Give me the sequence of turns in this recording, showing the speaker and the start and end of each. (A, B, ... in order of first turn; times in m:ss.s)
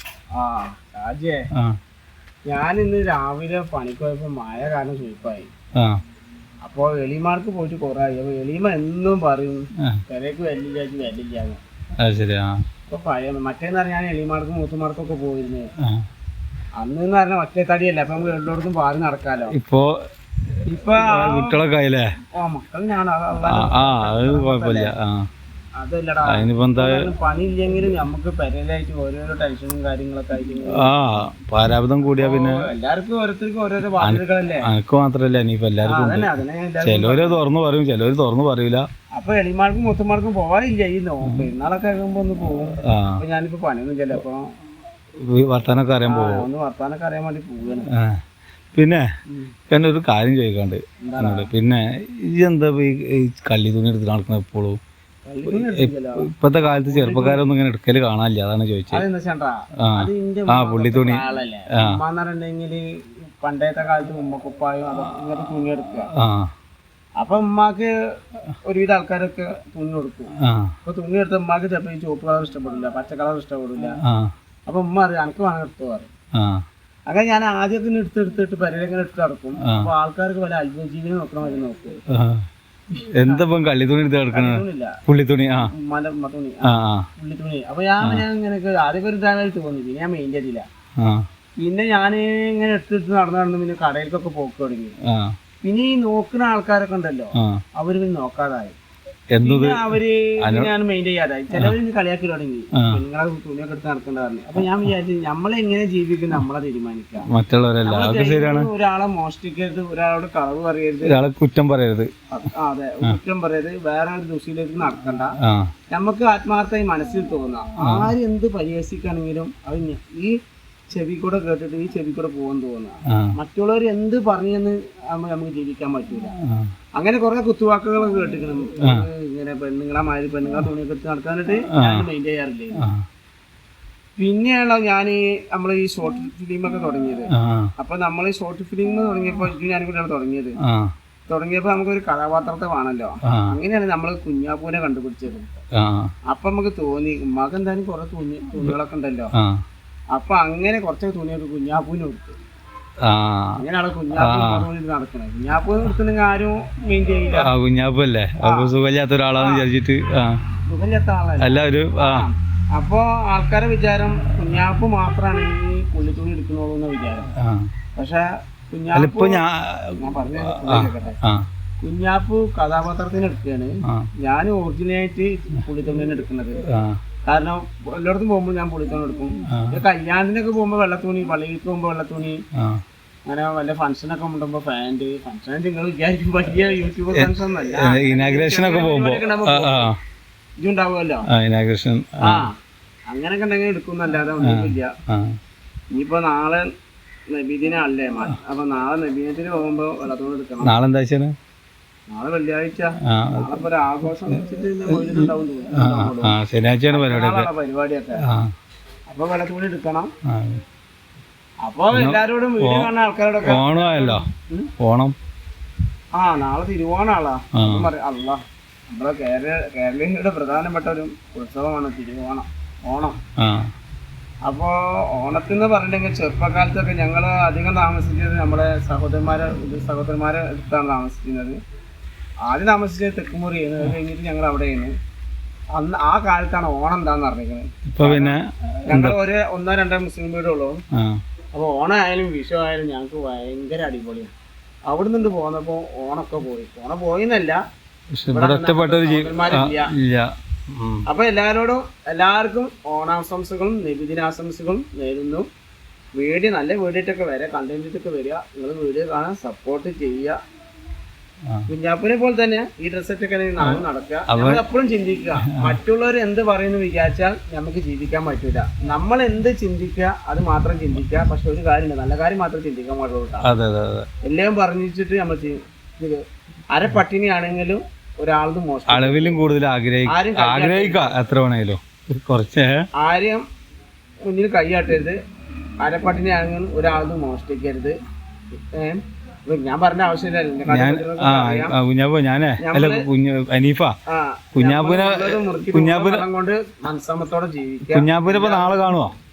0:00.3-0:01.4 A
0:02.4-0:05.5 A
0:06.6-0:11.6 A
0:12.0-0:12.6 B
0:12.9-0:15.7 A
0:16.8-0:19.5 A
0:19.6-0:19.9 B
0:20.7-0:21.6 A
0:20.9-0:22.1 B
0:22.4-0:24.9 A
0:23.4-0:25.2 B
0:25.8-0:30.9 A
0:26.3-0:27.0 B
0:30.8-0:32.6 B
0:32.2-0:34.7 A
0:34.0-0:38.8 B
0:35.8-0:37.4 A
0:39.2-0:44.5 A
0:42.8-0:43.2 B
0:45.2-0:46.4 B
0:46.1-0:47.9 A
0:48.0-0:48.2 B
0:48.7-0:49.0 B
0:49.7-0:54.8 B
0:51.0-0:51.5 A
0:55.2-0:57.5 A
0:55.5-0:59.0 B
0:58.9-1:02.9 A
0:59.9-1:01.2 B
1:03.4-1:06.1 A
1:06.2-1:06.5 B
1:07.2-1:07.9 A
1:08.6-1:10.3 A
1:10.4-1:10.7 B
1:10.8-1:13.9 A
1:14.0-1:14.3 B
1:14.7-1:16.1 A
1:16.4-1:16.6 B
1:17.1-1:22.0 A
1:22.1-1:22.4 B
1:23.0-1:25.7 B
1:24.3-1:25.0 A
1:25.6-1:30.6 A
1:26.7-1:27.0 B
1:31.0-1:31.2 B
1:31.6-1:35.0 A
1:35.1-1:35.3 B
1:35.6-1:38.8 A
1:39.3-1:39.9 B
1:39.4-1:47.3 A
1:40.4-1:40.7 B
1:47.3-1:48.7 B
1:47.8-1:51.2 A
1:51.0-1:52.1 B
1:52.3-1:55.3 A
1:55.4-1:55.7 B
1:55.9-2:00.3 A
1:57.8-1:58.1 B
2:00.9-2:06.3 A
2:07.0-2:12.8 A
2:11.8-2:12.0 B
2:14.2-2:20.6 A
2:17.4-2:17.7 B
2:20.6-2:20.9 B
2:21.3-2:25.5 A
2:25.8-2:26.1 B
2:26.3-2:29.3 A
2:30.1-2:32.4 A
2:33.0-2:33.6 B
2:33.6-2:37.5 A
2:34.1-2:34.6 B
2:37.3-2:40.4 B
2:38.4-2:38.7 A
2:39.4-2:39.6 A
2:40.7-2:47.3 A
2:41.4-2:42.2 B
2:47.4-2:47.7 B
2:48.0-2:49.4 A
2:48.9-2:51.4 B
2:50.0-2:51.2 A
2:51.8-2:56.6 A
2:56.7-2:57.0 B
2:57.3-3:02.4 A
3:03.2-3:09.9 A
3:07.1-3:09.9 B
3:10.6-3:11.2 A
3:11.3-3:12.4 B
3:12.2-3:12.5 A
3:13.1-3:14.9 A
3:14.4-3:15.4 B
3:15.9-3:16.6 A
3:17.3-3:20.7 A
3:20.6-3:21.3 B
3:22.1-3:26.3 A
3:23.1-3:23.5 B
3:24.9-3:27.5 B
3:26.9-3:28.2 A
3:28.2-3:28.5 B
3:29.1-3:30.1 A
3:30.3-3:30.6 B
3:31.6-3:34.7 A
3:31.9-3:32.9 B
3:33.4-3:34.2 B
3:34.8-3:35.2 B
3:36.2-3:43.2 A
3:37.6-3:37.9 B
3:43.4-3:43.7 B
3:44.4-3:51.6 A
3:52.4-3:54.9 A
3:55.8-3:58.4 A
3:57.9-3:59.2 B
3:58.9-4:00.8 A
4:01.5-4:04.3 A
4:04.9-4:07.6 A
4:08.1-4:11.0 B
4:08.3-4:09.9 A
4:11.1-4:15.5 A
4:16.1-4:20.4 A
4:21.7-4:33.5 A
4:23.6-4:24.6 B
4:25.4-4:25.8 B
4:33.4-4:34.1 B
4:34.2-4:36.2 A
4:36.7-4:39.4 A
4:38.9-4:42.8 B
4:40.1-4:41.1 A
4:43.0-4:43.4 A
4:44.2-4:45.2 A
4:45.8-4:48.0 A
4:48.7-4:51.8 A
4:50.7-4:53.9 B
4:52.6-4:53.1 A
4:54.1-4:59.0 A
4:54.5-4:56.2 B
4:57.9-4:59.1 B